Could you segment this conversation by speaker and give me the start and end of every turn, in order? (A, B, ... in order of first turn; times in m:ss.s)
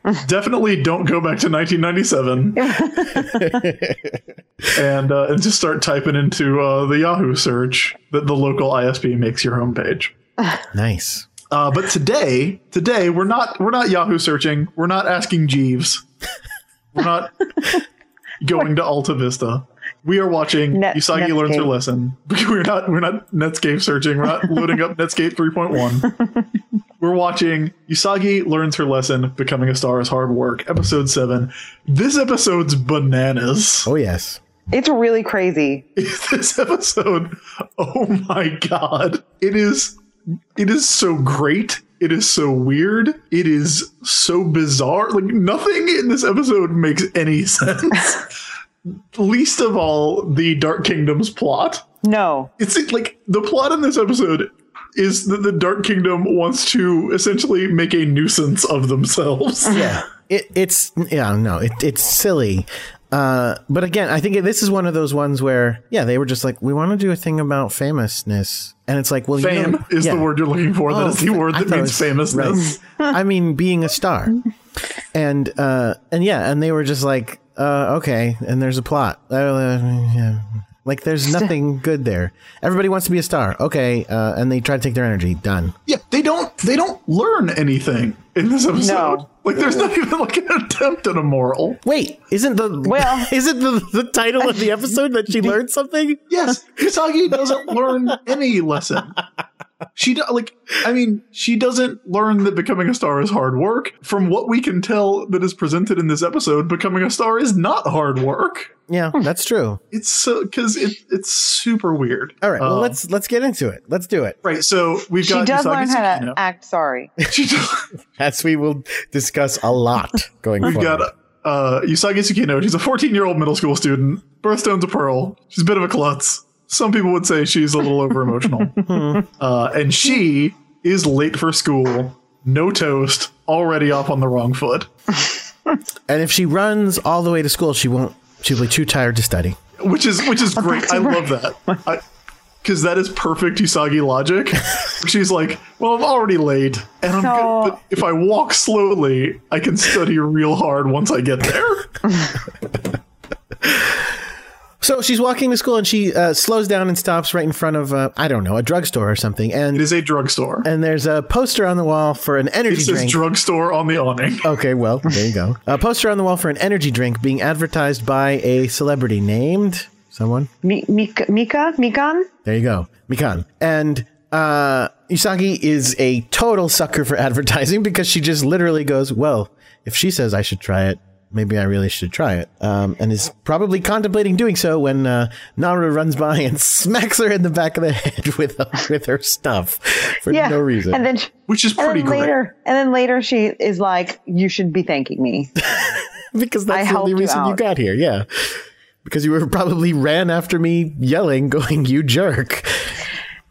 0:00.2-0:03.0 A
0:02.6-0:03.7 B
0:03.4-0:04.2 C
0:04.7-0:10.1 A
0:10.7-0:11.3 C
0:11.5-0:16.0 A
0:16.9-0:17.8 A
0:18.4-0:26.1 A
0:20.7-0:21.7 B
0:27.0-0:33.9 A
0:33.8-0:34.4 C
0:34.7-0:35.8 B
0:36.0-0:40.0 A
0:40.6-0:48.2 A
0:48.8-0:51.8 A
0:52.0-0:52.5 B
0:52.6-0:59.9 A
0:59.7-1:10.3 C
1:09.4-1:12.8 A
1:10.9-1:14.4 C
1:15.1-1:25.7 C
1:25.9-1:31.8 A
1:28.8-1:29.3 B
1:31.8-1:36.2 C
1:32.8-1:33.3 B
1:36.3-1:39.2 A
1:39.9-1:48.7 A
1:48.9-1:49.8 C
1:49.9-1:53.0 A
1:52.4-1:54.4 C
1:54.4-1:56.4 A
1:55.2-1:57.1 B
1:57.3-1:57.9 A
1:58.2-2:01.1 C
2:00.6-2:14.9 A
2:08.8-2:09.2 C
2:16.1-2:19.6 C
2:19.8-2:22.0 A
2:20.7-2:21.2 B
2:22.6-2:32.1 A
2:27.1-2:27.8 B
2:33.6-2:34.1 C
2:34.8-2:39.9 C
2:39.7-2:40.7 A
2:40.6-2:43.2 C
2:42.7-2:44.5 A
2:44.4-2:50.5 C
2:50.6-2:52.3 B
2:52.4-3:11.0 C
3:10.3-3:15.5 B
3:11.5-3:12.3 A
3:15.7-3:23.0 C
3:16.7-3:17.6 B